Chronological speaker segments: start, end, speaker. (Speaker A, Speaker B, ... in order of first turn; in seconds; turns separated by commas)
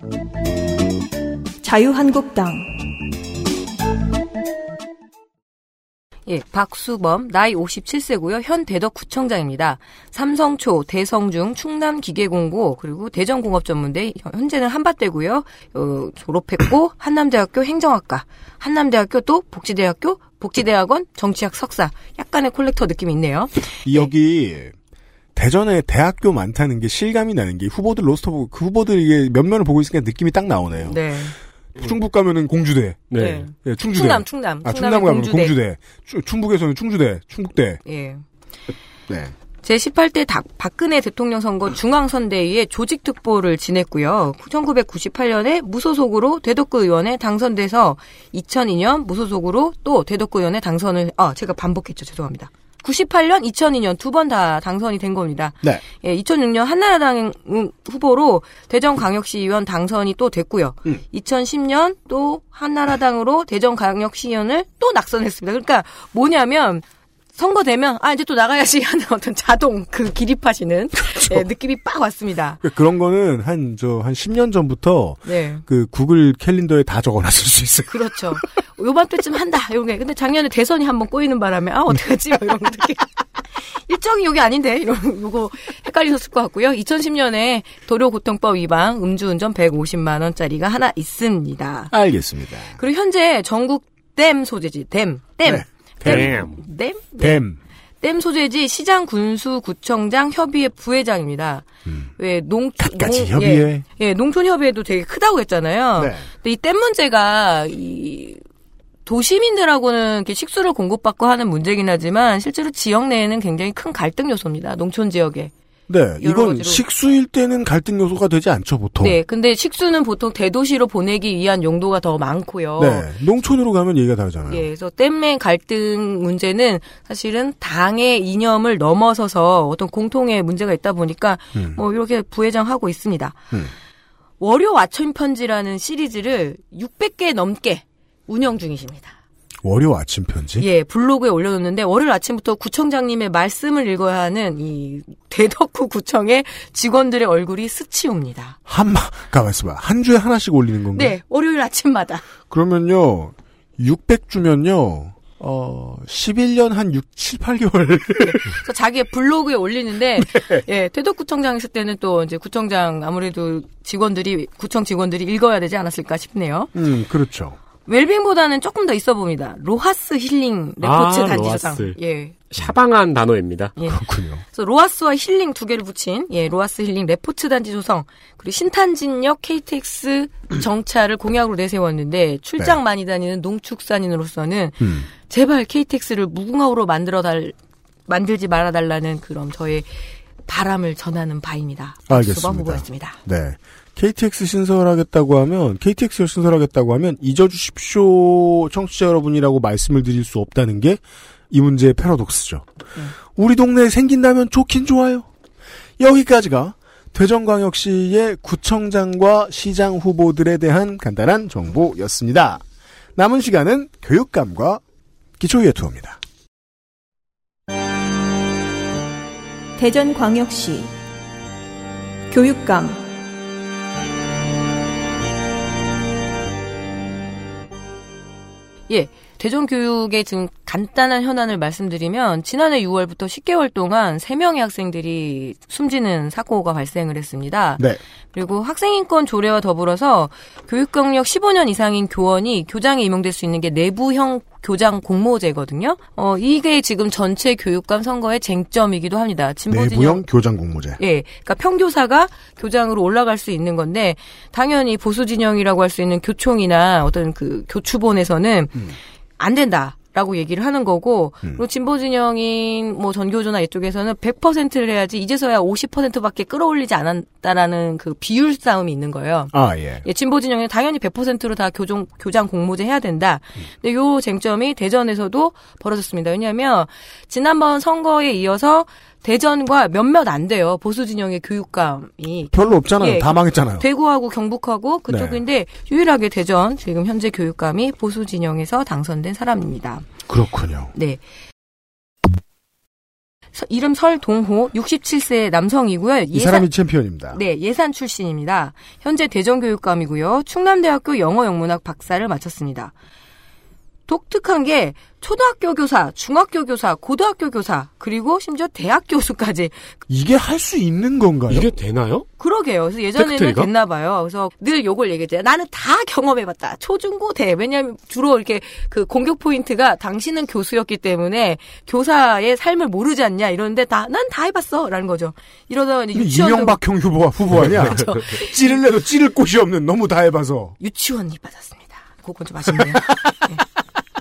Speaker A: 1.6-2.7, Speaker B: 6.3-24.1, Speaker C: 23.8-24.7, Speaker C: 25.3-31.0, Speaker B: 30.9-31.4, Speaker C: 31.8-37.8, Speaker D: 33.1-33.5, Speaker B: 33.1-35.5, Speaker B: 37.8-38.2, Speaker C: 39.1-39.3, Speaker B: 39.6-66.8, Speaker B: 67.3-72.6, Speaker C: 71.1-71.4, Speaker C: 72.6-78.4, Speaker B: 75.2-75.6, Speaker B: 77.9-91.9, Speaker C: 91.9-92.8, Speaker B: 92.8-97.4, Speaker C: 95.4-96.5, Speaker D: 96.0-96.6, Speaker C: 97.2-97.6, Speaker B: 98.0-101.7, Speaker B: 102.2-108.4, Speaker C: 102.8-103.8, Speaker C: 106.0-106.3, Speaker B: 109.0-115.5, Speaker C: 115.9-119.2, Speaker B: 116.2-116.8, Speaker B: 119.0-123.1, Speaker C: 122.8-124.7, Speaker B: 124.5-133.4, Speaker B: 134.4-139.2, Speaker C: 139.6-140.7, Speaker B: 140.6-148.6, Speaker C: 148.7-151.2, Speaker B: 150.9-152.2, Speaker C: 152.5-158.4, Speaker B: 158.2-166.7, Speaker C: 160.2-160.6, Speaker C: 166.7-167.6, Speaker B: 167.8-172.4, Speaker D: 170.8-173.7, Speaker C: 173.9-174.4, Speaker B: 174.5-187.5, Speaker C: 184.8-185.1, Speaker B: 188.1-189.9, Speaker B: 190.4-193.2, Speaker C: 192.1-205.3, Speaker C: 206.0-212.6, Speaker C: 213.2-214.8, Speaker C: 215.4-216.2, Speaker A: 219.8-220.9, Speaker A: 222.3-223.0, Speaker B: 228.9-250.2, Speaker C: 249.7-251.0, Speaker B: 251.0-290.1, Speaker C: 269.5-270.0, Speaker C: 282.5-283.9, Speaker C: 285.1-285.4, Speaker C: 290.3-290.9, Speaker B: 290.9-291.2, Speaker B: 293.5-296.7, Speaker C: 296.3-297.4, Speaker B: 297.3-302.9, Speaker B: 304.1-309.7, Speaker C: 310.1-311.7, Speaker D: 311.5-312.2, Speaker B: 312.4-326.8, Speaker D: 313.2-313.7, Speaker C: 326.1-330.7, Speaker B: 328.0-328.5, Speaker B: 330.8-333.6